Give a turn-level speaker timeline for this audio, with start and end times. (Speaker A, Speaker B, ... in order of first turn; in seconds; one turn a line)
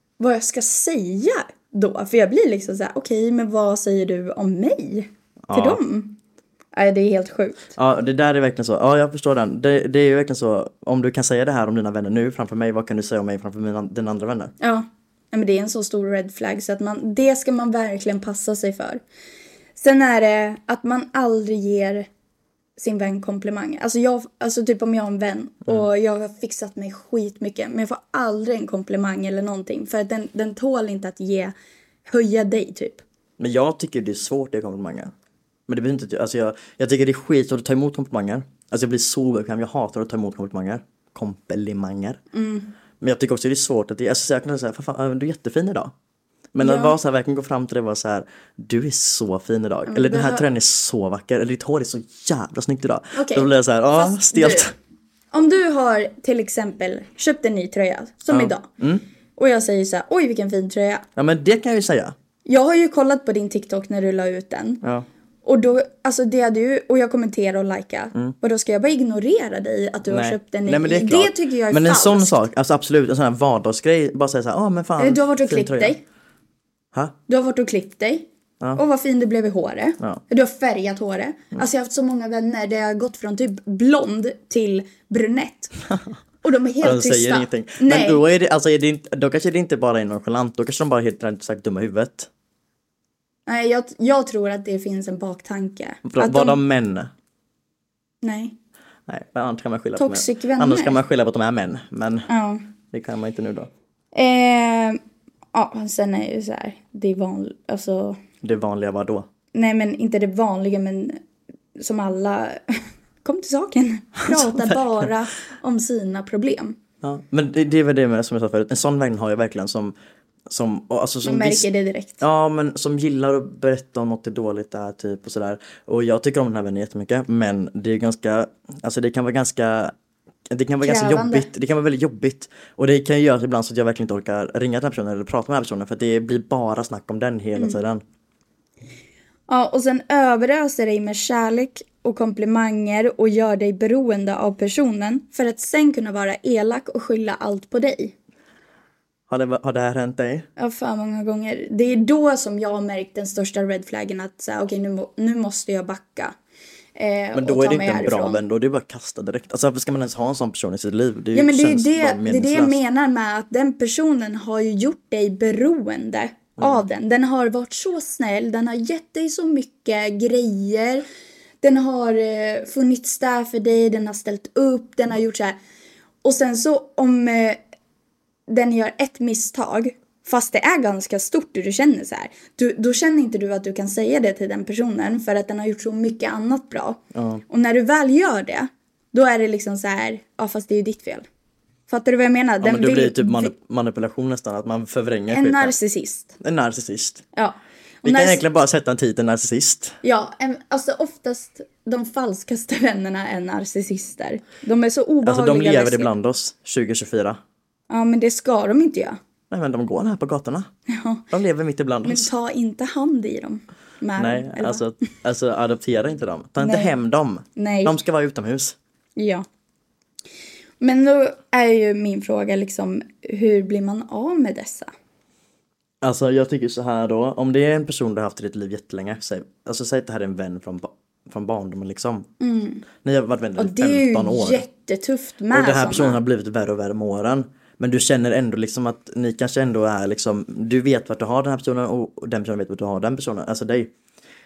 Speaker A: 0.2-6.2
Speaker B: 5.5-5.8
Speaker A: 6.7-7.7
Speaker B: 7.8-14.5
Speaker A: 14.6-19.0
Speaker A: 19.8-22.1
Speaker A: 22.8-31.5
Speaker A: 32.1-33.0
Speaker B: 33.4-35.1
Speaker B: 35.7-42.2
Speaker A: 42.3-42.7
Speaker B: 43.0-45.9
Speaker B: 46.5-54.7
Speaker A: 46.6-46.9
Speaker A: 49.9-50.5
Speaker A: 53.1-54.7
Speaker A: 55.3-58.7
Speaker B: 58.3-59.0
Speaker A: 59.4-61.1
Speaker B: 61.1-62.1
Speaker A: 62.5-64.8
Speaker B: 64.8-65.1
Speaker A: 65.4-72.4
Speaker B: 70.1-76.0
Speaker A: 75.0-76.0
Speaker A: 77.3-85.8
Speaker A: 86.4-88.2
Speaker B: 86.8-92.3
Speaker A: 93.5-96.6
Speaker B: 96.0-97.1
Speaker A: 98.2-98.6
Speaker B: 99.1-102.3
Speaker A: 100.0-101.0
Speaker A: 102.3-102.6
Speaker B: 102.9-103.7
Speaker A: 104.1-105.0
Speaker A: 105.5-108.2
Speaker B: 108.4-109.2
Speaker A: 109.5-111.2
Speaker A: 111.8-116.8
Speaker B: 114.2-115.1
Speaker B: 117.0-119.9
Speaker B: 120.5-121.7
Speaker A: 121.2-122.2
Speaker B: 122.2-129.9
Speaker B: 130.5-138.0
Speaker A: 130.8-131.5
Speaker A: 139.5-148.1
Speaker B: 149.3-150.5
Speaker A: 150.6-156.4
Speaker A: 157.0-158.4
Speaker B: 157.3-162.8
Speaker A: 161.3-171.1
Speaker A: 171.6-175.6
Speaker A: 176.2-177.6
Speaker A: 178.5-191.2
Speaker B: 187.1-187.4
Speaker A: 191.9-193.5
Speaker B: 192.6-195.8
Speaker A: 195.3-196.4
Speaker B: 196.4-197.2
Speaker A: 197.3-198.4
Speaker B: 198.0-200.0
Speaker A: 200.0-206.1
Speaker B: 205.2-207.4
Speaker A: 207.9-209.2
Speaker B: 209.5-210.7
Speaker A: 210.9-211.2
Speaker B: 211.3-212.3
Speaker A: 212.0-214.8
Speaker B: 214.2-218.8
Speaker A: 216.6-216.9
Speaker A: 217.6-218.0
Speaker A: 219.2-219.4
Speaker A: 220.8-224.9
Speaker B: 226.0-232.3
Speaker A: 232.4-232.8
Speaker B: 233.0-234.7
Speaker A: 233.6-236.2
Speaker B: 235.5-243.9